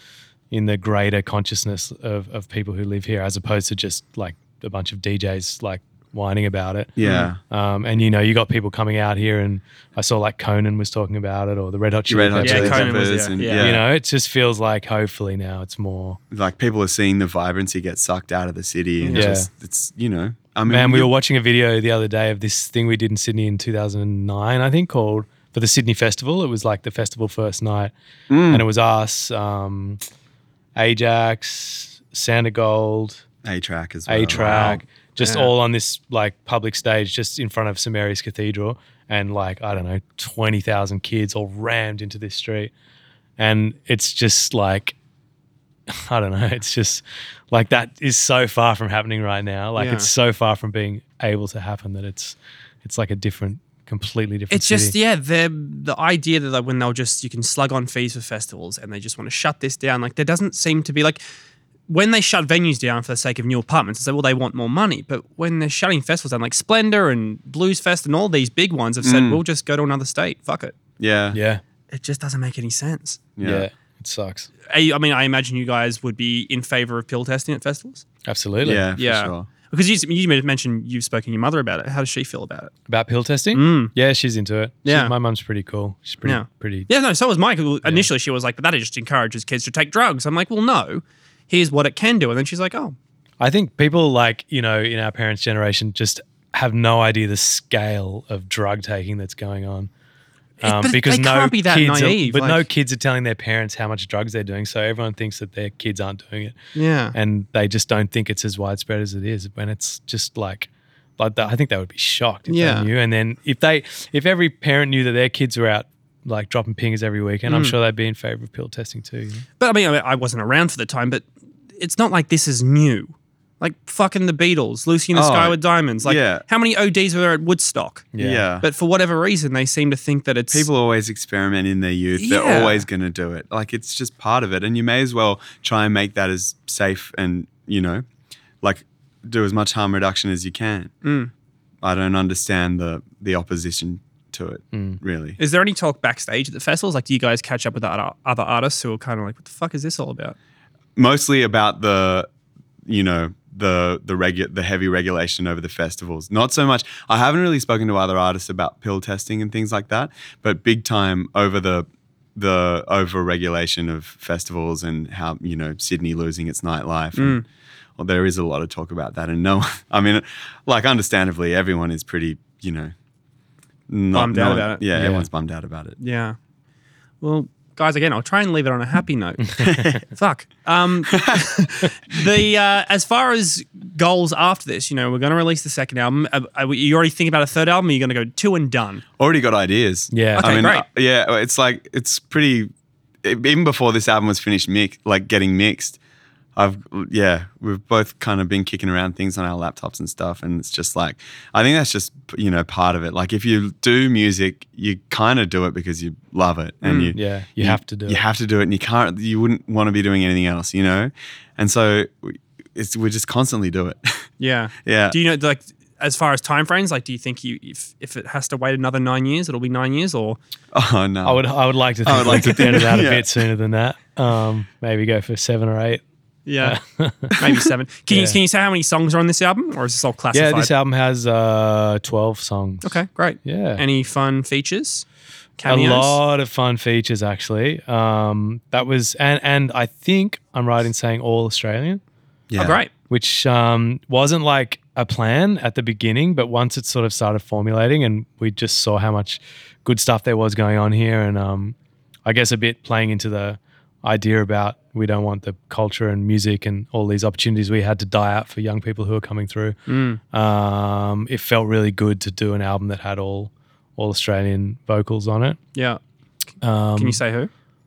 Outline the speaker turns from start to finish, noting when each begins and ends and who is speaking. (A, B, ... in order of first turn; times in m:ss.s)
0:00.5-0:13.0 A
0:07.0-0:07.4 B
0:07.0-0:07.3 C
0:12.1-0:13.9 B
0:12.4-0:13.7 C
0:13.6-0:16.2 A
0:16.3-0:21.1 B
0:19.0-0:19.4 C
0:19.1-0:19.5 A
0:20.7-0:27.9 A
0:28.3-0:28.6 B
0:28.5-0:30.0 A
0:30.8-0:33.2 A
0:33.4-0:34.8 B
0:34.1-0:42.7 A
0:34.4-0:35.5 C
0:43.4-0:44.9 A
0:46.1-0:54.9 A
0:49.8-0:50.1 C
0:54.5-1:01.2 C
1:01.9-1:10.8 C
1:09.0-1:09.4 B
1:11.0-1:11.4 B
1:11.3-1:11.6 A
1:11.9-1:13.2 C
1:13.4-1:13.7 B
1:13.4-1:14.5 A
1:14.7-1:18.0 C
1:18.3-1:18.9 A
1:18.6-1:19.5 B
1:19.0-1:22.7 C
1:22.9-1:26.9 A
1:23.5-1:23.9 C
1:24.8-1:25.1 C
1:26.2-1:33.0 C
1:33.4-1:39.9 A
1:40.6-1:42.7 C
1:40.6-1:46.6 A
1:46.8-1:47.2 C
1:47.1-1:59.5 A
1:52.5-1:52.9 C
1:57.5-1:57.8 C
1:59.6-2:01.3 C
2:01.8-2:08.1 C
2:05.1-2:06.4 B
2:08.1-2:08.4 A
2:08.2-2:08.7 B
2:08.6-2:10.7 C
2:10.5-2:18.0 B
2:12.2-2:12.9 C
2:18.6-2:20.9 B
2:21.0-2:21.3 C
2:21.8-2:25.4 B
2:24.7-2:25.0 A
2:25.4-2:30.4 C
2:31.0-2:32.3 B
2:32.9-2:47.4 B
2:47.2-2:47.4 C
2:48.0-2:52.9 B
2:53.9-2:56.0 B
2:54.1-2:54.8 C
2:54.9-2:55.3 A
2:56.0-2:56.4 C
2:57.2-3:09.0 C
2:59.4-3:00.0 A
3:01.2-3:01.4 B
3:09.2-3:12.7 B
3:10.1-3:10.5 A
3:10.4-3:10.8 C
3:13.2-3:16.0 B
3:16.6-3:34.2 B
3:26.8-3:27.2 C
3:27.1-3:28.2 A
3:34.4-3:40.4 C
3:34.8-3:35.2 B
3:40.7-3:41.4 B
3:41.2-3:46.0 A
3:42.0-3:43.3 B
3:46.5-3:46.8 C
3:46.6-3:47.4 A
3:47.4-3:50.7 C
3:48.1-3:48.4 A
3:50.3-3:53.8 A
3:52.8-3:55.1 C
3:55.6-3:56.2 C
3:55.7-4:02.0 A
4:02.5-4:02.8 B
4:02.6-4:02.9 C
4:03.1-4:19.8 A
4:19.9-4:20.2 C
4:20.3-4:25.6 A
4:25.8-4:26.0 C
4:26.6-4:27.2 A
4:27.0-4:27.5 C